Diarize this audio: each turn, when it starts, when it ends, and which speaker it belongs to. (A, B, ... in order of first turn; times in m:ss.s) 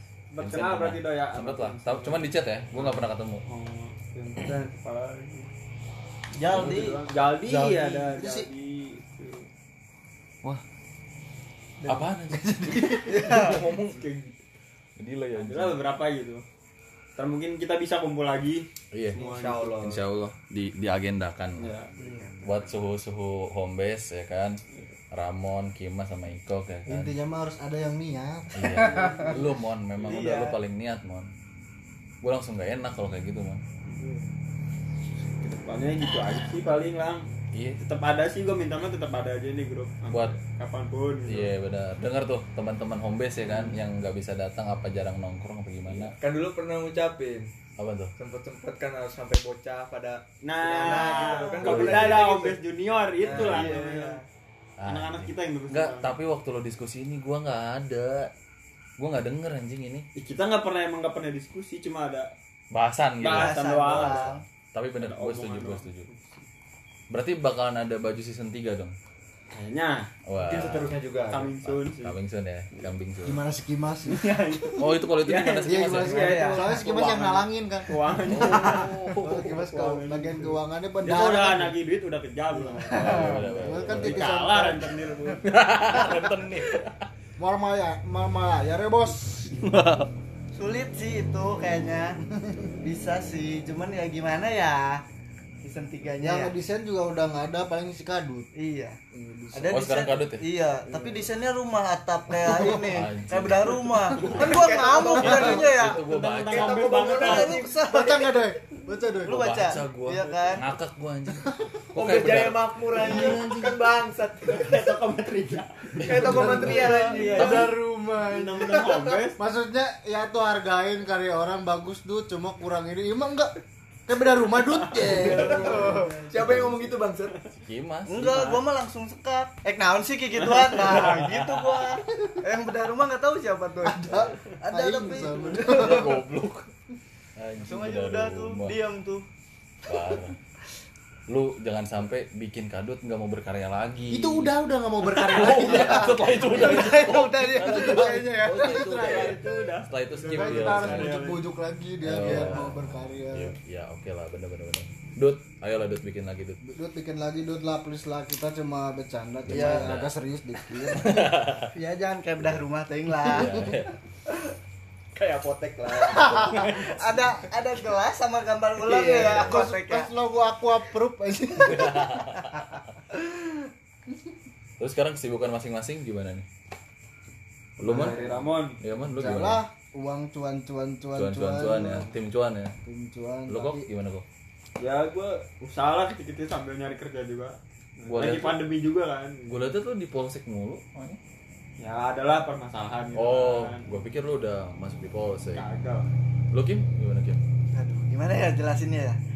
0:00.3-0:05.5 A
0:00.4-0:03.4 B
0:06.3-0:07.0 C
0:06.5-0:09.5 A
0:07.4-0:08.5 D
0:11.8-0:14.1 B
0:13.0-0:13.5 C
0:13.1-0:14.3 A
0:15.0-0:15.8 B
0:15.4-0:16.4 A
0:17.2-0:19.8 A
0:18.9-0:19.2 B
0:19.1-0:20.0 E
0:19.8-0:21.7 B
0:21.6-0:22.0 A
0:22.0-0:22.3 C
0:22.4-0:24.6 B
0:25.1-0:27.1 B
0:26.9-0:29.4 D
0:28.5-0:31.3 B
0:28.9-0:29.3 A
0:30.0-0:30.6 C
0:32.2-0:33.6 B
0:35.4-0:37.2 A
0:37.5-0:37.8 B
0:37.8-0:41.5 A
0:40.1-0:40.4 B
0:41.3-0:46.1 B
0:46.0-0:47.5 E
0:47.8-0:48.1 B
0:48.2-0:52.6 E
0:50.4-0:54.2 A
0:50.9-0:52.2 C
0:53.2-0:54.2 E
0:53.2-0:54.2 C
0:54.8-0:58.3 B
0:54.9-0:56.2 A
0:59.0-1:00.1 B
1:00.2-1:02.3 A
1:02.7-1:06.1 B
1:03.2-1:04.3 A
1:03.3-1:04.4 C
1:05.0-1:06.4 A
1:07.1-1:09.0 B
1:09.5-1:10.1 A
1:10.3-1:10.9 B
1:10.4-1:11.5 E
1:11.3-1:12.2 A
1:11.6-1:13.4 B
1:13.2-1:14.2 D
1:14.1-1:26.3 A
1:14.8-1:16.3 B
1:15.6-1:21.8 D
1:16.1-1:17.0 C
1:18.3-1:19.4 B
1:22.5-1:24.9 D
1:22.9-1:24.3 B
1:25.5-1:26.8 B
1:27.4-1:29.6 D
1:29.6-1:30.1 A
1:30.5-1:32.2 C
1:32.8-1:35.0 C
1:35.6-1:36.5 C
1:36.2-1:38.5 D
1:38.5-1:39.0 C
1:39.1-1:39.8 D
1:39.5-1:46.0 C
1:39.7-1:40.5 B
1:40.9-1:41.2 D
1:42.3-1:43.0 D
1:42.8-1:44.6 B
1:44.1-1:44.4 D
1:44.3-1:45.7 E
1:45.1-1:47.6 B
1:45.2-1:45.8 D
1:46.0-1:47.7 A
1:46.5-1:47.7 E
1:47.1-1:48.4 C
1:47.8-1:49.5 D
1:49.2-1:50.7 C
1:49.2-1:53.8 B
1:51.9-1:55.0 E
1:54.5-1:56.4 A
1:56.0-1:57.7 E
1:56.0-2:03.5 D
1:56.4-1:57.6 C
1:57.1-1:59.4 A
1:57.4-1:57.7 B
2:04.1-2:06.3 D
2:05.0-2:07.3 E
2:05.1-2:06.8 C
2:07.5-2:08.6 B
2:08.1-2:16.0 C
2:10.4-2:11.1 A
2:13.8-2:16.2 D
2:15.6-2:16.7 B
2:17.4-2:18.8 B
2:17.6-2:19.3 C
2:19.9-2:20.4 B
2:21.3-2:24.5 B
2:24.1-2:29.4 D
2:25.2-2:31.2 B
2:26.6-2:28.2 C
2:28.5-2:31.4 A
2:30.3-2:33.5 D
2:32.0-2:36.6 B
2:36.6-2:41.4 D
2:39.4-2:40.1 B
2:39.5-2:40.0 C
2:40.9-2:41.7 B
2:41.7-2:43.7 C
2:43.2-2:43.9 B
2:43.4-2:43.7 D
2:45.1-2:47.0 E
2:46.0-2:50.1 C
2:48.8-2:49.4 E
2:49.1-2:52.2 D
2:49.3-2:49.6 B
2:51.7-2:52.5 B
2:54.8-2:56.4 B
2:57.8-2:58.2 B
2:57.8-2:58.2 D
2:57.9-2:58.8 A
2:58.8-2:59.6 B
2:59.2-3:02.1 D
3:01.1-3:02.7 B
3:02.8-3:03.9 D
3:03.5-3:04.2 B
3:04.8-3:09.7 A
3:08.0-3:08.6 B
3:09.4-3:11.2 B
3:11.8-3:13.8 A
3:13.1-3:15.6 B
3:15.5-3:16.1 A
3:16.5-3:17.4 B
3:17.7-3:19.2 C